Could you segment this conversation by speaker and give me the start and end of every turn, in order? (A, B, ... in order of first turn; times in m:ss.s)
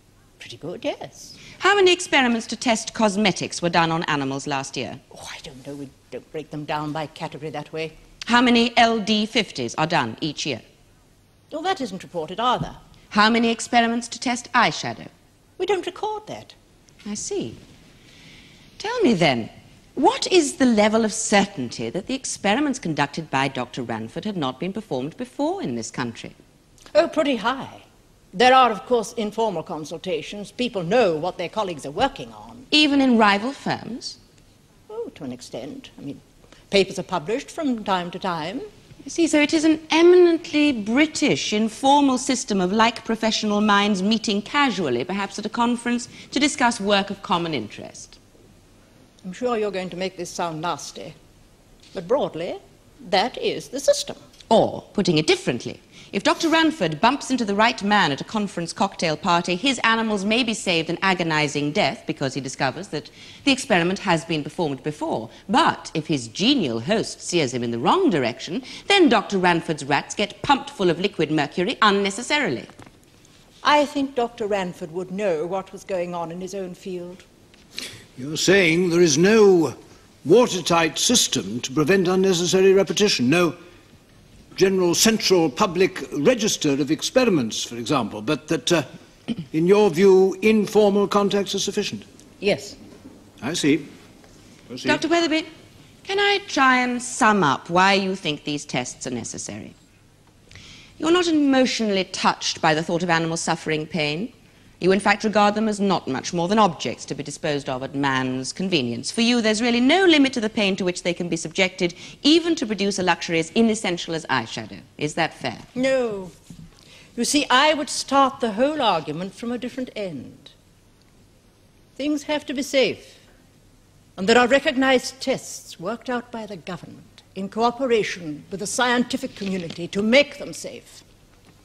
0:00.4-0:01.4 A
0:01.6-0:05.0 B
0:05.1-0:08.0 A
0:08.3-0:10.6 B
0:11.5-0:12.8 A
0:13.1-0:15.1 B
0:15.6-0:16.6 A
0:17.0-0:17.6 B
0:18.8-0:26.4 B
0:26.9-0:32.7 A
0:32.7-0:34.2 B
0:34.9-0:38.7 A
0:39.0-0:48.2 B
0:49.2-0:51.2 A
0:51.9-0:54.2 A
0:54.5-1:12.7 B
1:13.6-1:17.2 A
1:18.2-1:23.6 C
1:24.6-1:28.9 C
1:29.5-1:32.1 C
1:32.4-1:32.8 A
1:33.4-1:33.9 C
1:34.7-1:35.0 C
1:34.8-1:35.5 B
1:36.0-1:39.8 B
1:41.0-1:55.7 B
1:55.8-1:56.3 A
1:57.2-2:00.5 A
2:02.0-2:03.2 A
2:04.2-2:11.0 A